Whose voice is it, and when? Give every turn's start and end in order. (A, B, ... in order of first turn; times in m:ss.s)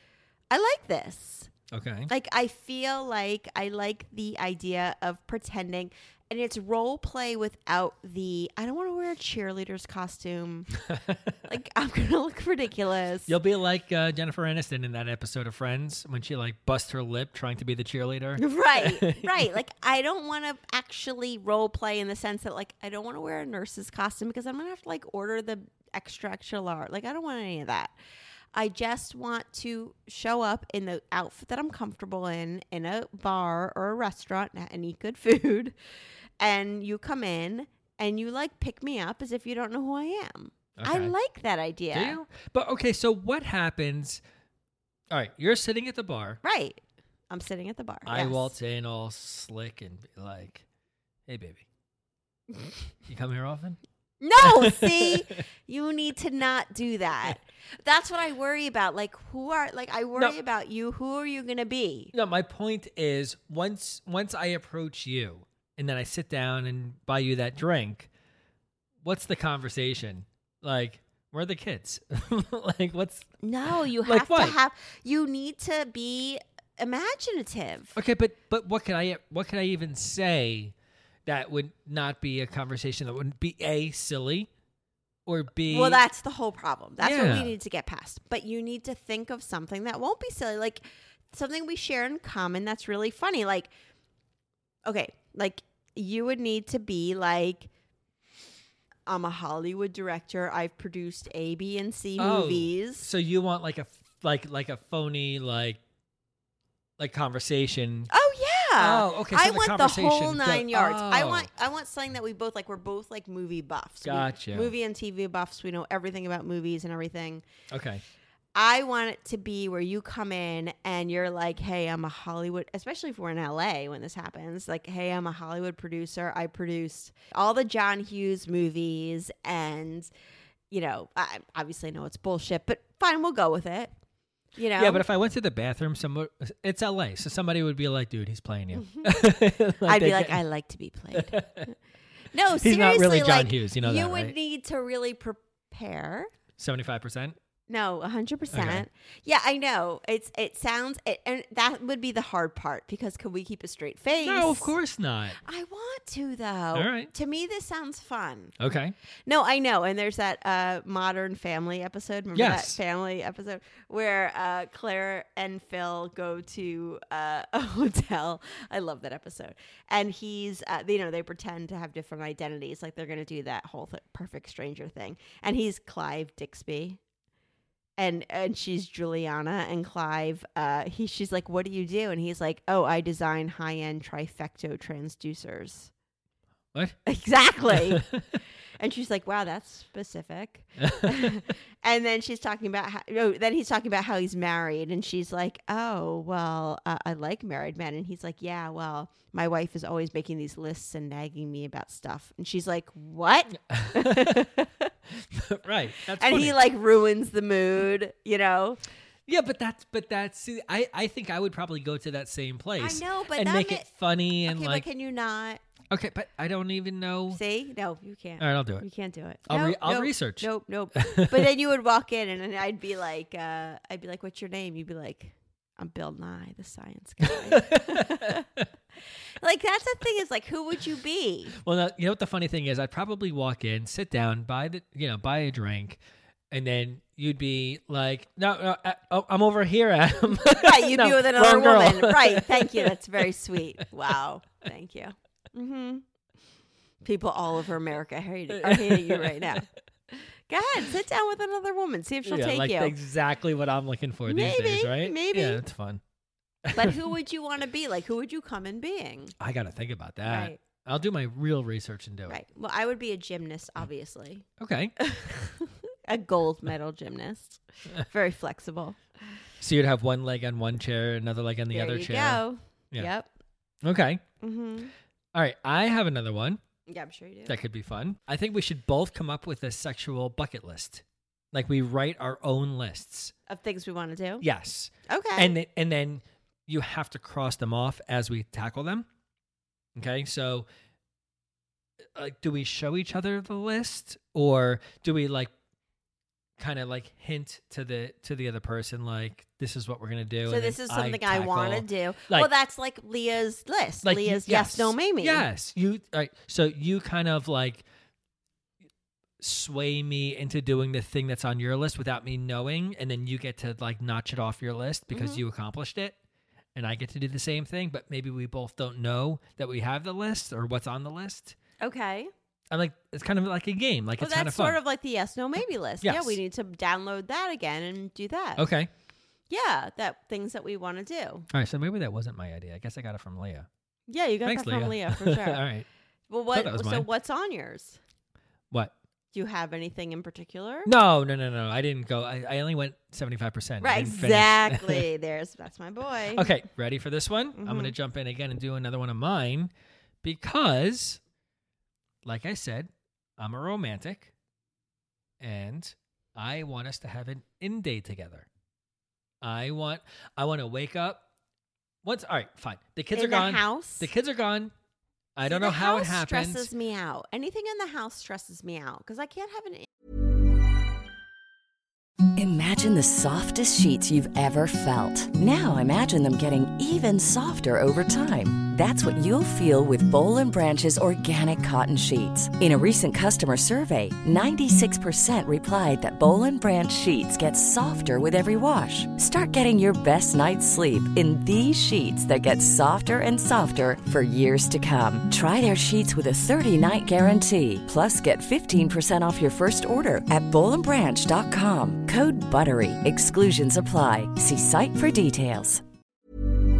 0:00.5-0:01.5 A
0:01.7-0:02.1 B
0:02.1-0:10.8 A
0:10.8-0:11.4 B
0:11.4-0:13.3 A
0:13.3-0:19.3 B
0:18.4-0:27.9 A
0:28.5-0:35.8 A
0:36.4-0:42.2 A
0:40.8-0:41.1 B
0:41.9-0:44.2 B
0:45.1-0:46.4 B
0:46.4-0:48.5 A
0:48.1-0:50.6 B
0:51.3-0:51.6 B
0:53.1-0:53.8 B
0:54.2-1:02.1 A
0:54.4-0:55.2 B
1:02.1-1:08.1 B
1:09.0-1:14.6 B
1:13.4-1:18.0 A
1:18.0-1:20.7 B
1:21.3-1:24.5 B
1:25.3-1:26.0 B
1:25.7-1:33.7 A
1:27.0-1:27.5 B
1:34.9-1:37.7 A
1:39.1-1:43.1 A
1:42.2-1:45.8 B
1:47.0-1:48.1 B
1:48.1-1:57.4 A
1:48.8-1:51.5 B
1:54.0-1:54.7 B
1:57.7-1:58.0 B
1:58.6-2:10.1 A
2:10.7-2:13.9 A
2:14.6-2:15.0 A
2:14.8-2:20.4 B
2:19.0-2:19.2 A
2:19.8-2:21.7 A
2:21.1-2:21.7 B
2:22.3-2:26.3 A
2:22.6-2:24.4 B
2:26.6-2:27.4 B
2:27.7-2:34.8 A
2:28.5-2:28.9 B
2:34.2-2:35.4 B
2:35.4-2:38.5 A
2:36.8-2:37.1 B
2:38.6-2:39.0 B
2:39.3-2:57.0 A
2:42.4-2:42.8 B
2:58.0-3:05.9 A
3:07.1-3:08.0 A
3:07.7-3:08.4 B
3:08.8-3:24.9 A
3:10.8-3:11.3 B
3:23.7-3:24.5 B
3:25.3-3:26.6 B
3:26.2-3:28.8 A
3:29.3-3:34.8 B
3:32.8-3:33.9 A
3:34.5-3:35.6 A
3:35.9-3:37.4 B
3:37.3-3:48.5 A
3:38.4-3:38.8 B
3:39.5-3:41.5 B
3:47.3-3:48.6 B
3:49.4-3:51.6 A
3:51.6-3:56.0 B
3:56.5-4:02.9 B
4:00.4-4:06.0 A
4:07.0-4:12.9 A
4:08.6-4:09.6 B
4:12.3-4:16.0 B
4:14.3-4:15.6 A
4:16.6-4:17.0 B
4:16.7-4:19.3 A
4:19.4-4:22.4 B
4:20.3-4:20.6 A
4:22.3-4:24.5 A
4:24.6-4:24.9 B
4:25.0-4:29.0 A
4:29.6-4:33.1 B
4:31.7-4:33.3 A
4:33.8-4:34.2 B
4:34.4-4:34.9 A
4:35.3-4:36.6 B
4:36.9-4:37.6 A
4:37.5-4:43.3 B
4:43.5-4:44.4 A
4:44.4-4:49.1 B
4:45.1-4:45.6 A
4:50.0-4:50.7 B
4:52.2-4:55.5 B
4:56.6-5:02.5 B
5:00.4-5:05.4 A
5:04.0-5:07.8 B
5:09.4-5:16.2 B
5:15.1-5:15.4 A
5:16.8-5:21.6 B
5:21.8-5:22.3 A
5:22.7-5:24.8 B
5:24.2-5:28.7 A
5:26.0-5:26.4 B
5:28.6-5:28.9 B
5:29.5-5:31.5 A
5:31.5-5:33.7 B
5:34.1-5:35.6 A
5:34.4-5:35.9 B
5:36.3-5:38.0 A
5:36.5-5:37.1 B
5:39.3-5:40.9 A
5:40.9-5:45.0 B
5:43.8-5:46.5 A
5:46.3-5:49.7 B
5:47.6-5:47.9 A
5:50.2-5:51.2 B
5:52.2-5:54.3 B
5:55.4-5:58.5 B
5:59.4-6:01.2 B
6:02.0-6:04.7 B
6:03.1-6:04.1 A
6:05.4-6:06.7 B
6:05.4-6:09.9 A
6:12.4-6:45.8 C